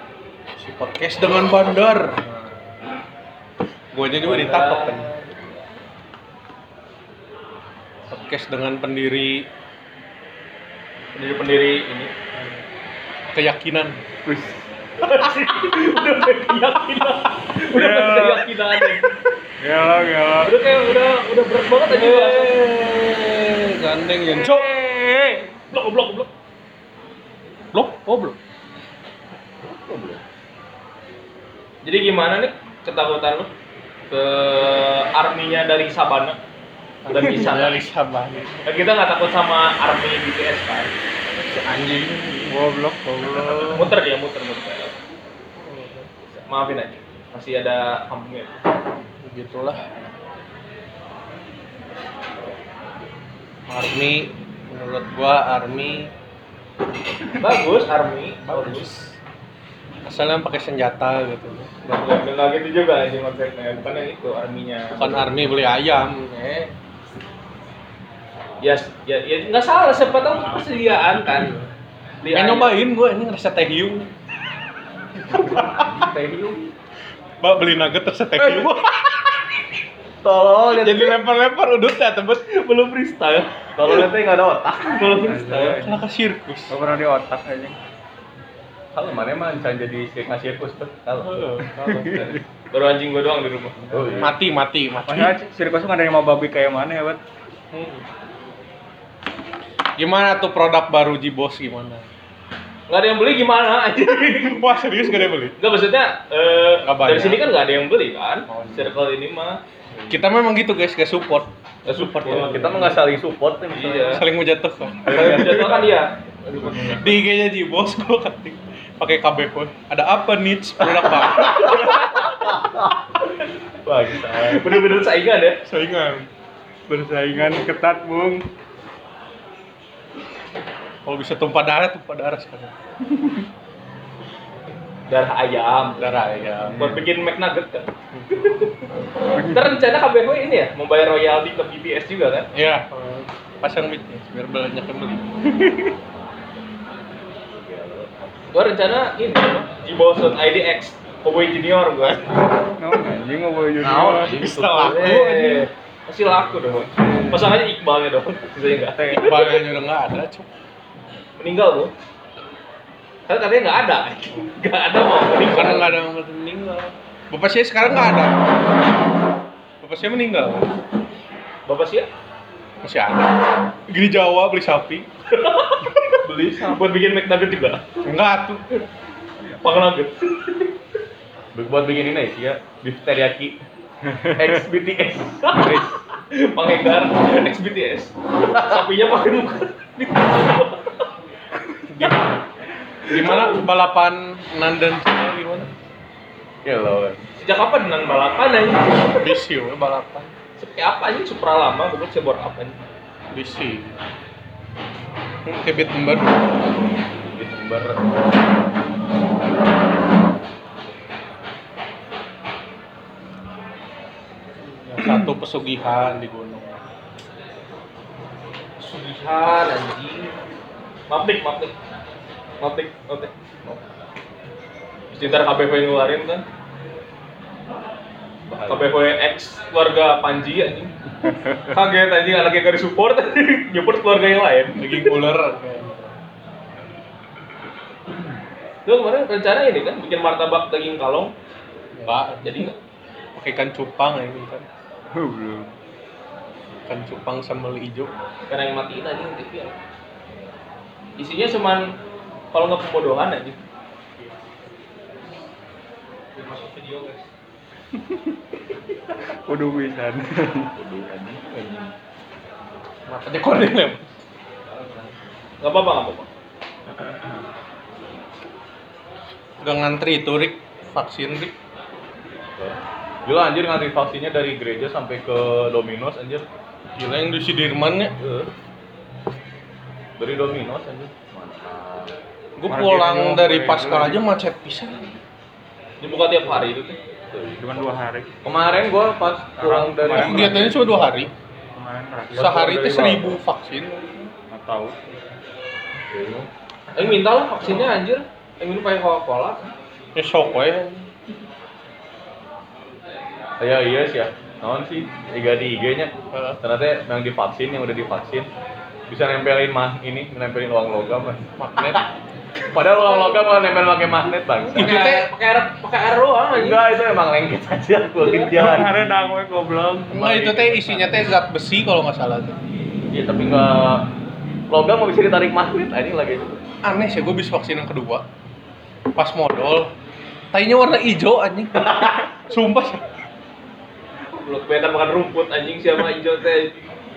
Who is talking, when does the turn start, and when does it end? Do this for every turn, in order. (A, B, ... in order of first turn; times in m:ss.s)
0:00.5-0:02.8 A
0:03.9-0:05.1 A
0:04.2-0:05.3 B
0:08.1-0:09.5 A
0:11.2-0:12.1 B
0:12.3-0:12.6 A
0:13.3-0:14.0 A
0:14.2-0:14.7 C
0:15.0-0:19.1 B
0:17.8-0:18.4 C
0:19.6-0:20.5 C
0:20.4-0:22.6 B
0:21.9-0:24.7 A
0:24.3-0:25.5 C
0:25.7-0:26.3 B
0:27.7-0:28.4 A
0:29.6-0:30.2 D
0:31.8-0:33.5 B
0:34.1-0:36.4 B
0:37.0-0:38.6 A
0:37.1-0:37.8 B
0:38.6-0:40.9 B
0:41.4-0:43.9 A
0:42.5-0:43.5 C
0:43.6-0:45.0 B
0:45.6-0:46.1 A
0:46.3-0:48.5 B
0:49.2-0:49.8 A
0:53.7-0:56.1 A
0:57.4-0:59.1 B
0:58.5-0:58.9 A
1:00.0-1:01.7 A
1:01.8-1:05.3 B
1:05.0-1:06.7 A
1:08.6-1:11.5 B
1:11.2-1:11.7 A
1:12.2-1:12.7 B
1:12.3-1:14.1 A
1:15.4-1:16.0 A
1:15.4-1:16.6 B
1:17.4-1:19.7 A
1:20.2-1:21.2 D
1:20.7-1:22.5 A
1:22.5-1:23.9 B
1:23.8-1:25.1 D
1:24.9-1:25.8 B
1:25.2-1:26.0 C
1:25.6-1:26.7 A
1:26.7-1:27.8 C
1:28.9-1:31.4 D
1:31.2-1:32.4 A
1:32.0-1:32.4 C
1:32.0-1:33.8 B
1:33.9-1:34.3 C
1:33.9-1:34.3 D
1:34.2-1:35.4 A
1:35.1-1:37.2 C
1:37.7-1:38.1 A
1:40.0-1:42.0 A
1:42.9-1:44.6 B
1:44.3-1:45.6 A
1:45.6-1:49.6 B
1:46.8-1:47.5 A
1:48.5-1:48.9 A
1:50.1-1:52.9 A
1:51.9-1:52.8 B
1:52.2-1:54.2 D
1:53.7-1:54.2 B
1:54.1-1:55.7 A
1:55.0-1:55.9 D
1:55.1-1:57.0 B
1:56.9-2:02.3 A
2:00.9-2:02.9 D
2:03.8-2:04.8 D
2:04.3-2:05.6 B
2:05.7-2:06.3 A
2:06.9-2:08.5 C
2:11.0-2:12.7 A
2:15.1-2:16.1 B
2:16.0-2:16.9 A
2:16.7-2:17.0 C
2:16.7-2:18.7 B
2:18.1-2:18.4 A
2:19.4-2:19.7 C
2:19.4-2:22.5 B
2:22.5-2:25.3 A
2:25.6-2:25.9 C
2:27.5-2:28.3 D
2:28.5-2:32.4 B
2:32.8-2:34.3 C
2:33.8-2:35.2 D
2:34.2-2:35.7 A
2:34.8-2:39.6 B
2:36.5-2:37.5 C
2:38.8-2:39.3 C
2:39.2-2:40.5 A
2:41.4-2:41.9 B
2:43.3-2:45.9 B
2:45.4-2:48.4 A
2:49.8-2:50.7 A
2:51.7-2:52.1 B
2:52.8-2:55.1 A
2:55.3-2:56.0 B
2:56.2-2:56.8 D
2:56.7-2:57.8 B
2:58.0-2:58.6 A
2:59.6-3:00.7 B
3:01.5-3:03.6 D
3:04.0-3:04.6 C
3:04.4-3:05.6 D
3:05.4-3:11.0 B
3:05.5-3:05.9 C
3:11.9-3:12.4 A
3:13.1-3:15.7 A
3:13.1-3:13.6 B
3:16.6-3:17.2 D
3:17.4-3:19.2 B
3:19.2-3:20.3 A
3:20.6-3:22.8 B
3:23.3-3:23.9 A
3:25.4-3:26.5 A
3:27.3-3:28.1 D
3:34.8-3:36.8 A
3:38.8-3:40.4 B
3:41.1-3:41.7 B
3:42.6-3:43.3 B
3:45.1-3:46.4 B
3:48.5-3:48.9 D
3:48.7-3:50.9 B
3:51.6-3:55.1 B
3:54.8-3:56.1 A
3:58.8-4:01.3 B
4:01.9-4:02.7 A
4:02.4-4:02.8 B
4:03.4-4:04.7 A
4:05.1-4:05.7 C
4:06.9-4:08.1 A
4:08.5-4:09.8 B
4:11.2-4:11.9 B
4:12.5-4:13.6 B
4:16.4-4:17.2 B
4:18.0-4:18.3 C
4:19.3-4:20.7 C
4:20.8-4:21.9 D
4:23.1-4:24.1 A
4:25.6-4:26.3 B
4:27.0-4:27.4 D
4:29.6-4:31.5 A
4:32.6-4:36.5 D
4:37.0-4:38.1 A
4:38.2-4:38.5 D
4:40.2-4:42.2 D
4:42.6-4:45.1 A
4:42.7-4:44.2 C
4:46.0-4:47.0 B
4:47.3-4:47.9 D
4:47.6-4:48.3 C
4:48.4-4:50.7 D
4:49.6-4:50.7 C
4:50.1-4:51.3 A
4:51.7-4:52.6 C
4:52.3-4:53.4 D
4:52.4-4:54.3 A
4:54.5-4:55.0 C
4:56.1-4:56.5 D
4:56.9-4:59.7 B
5:00.2-5:01.1 A
5:03.6-5:08.5 D
5:06.3-5:06.6 A
5:09.1-5:12.1 D
5:11.6-5:12.0 A
5:12.7-5:14.9 D
5:13.0-5:13.4 B
5:14.7-5:16.8 B
5:14.7-5:15.3 A
5:16.5-5:19.1 D
5:18.2-5:18.7 B
5:18.5-5:21.1 C
5:20.1-5:22.6 A
5:23.1-5:24.1 D
5:24.7-5:26.6 D
5:26.8-5:28.2 A
5:29.2-5:29.9 A
5:30.5-5:33.0 A
5:31.9-5:32.1 D
5:34.4-5:36.9 B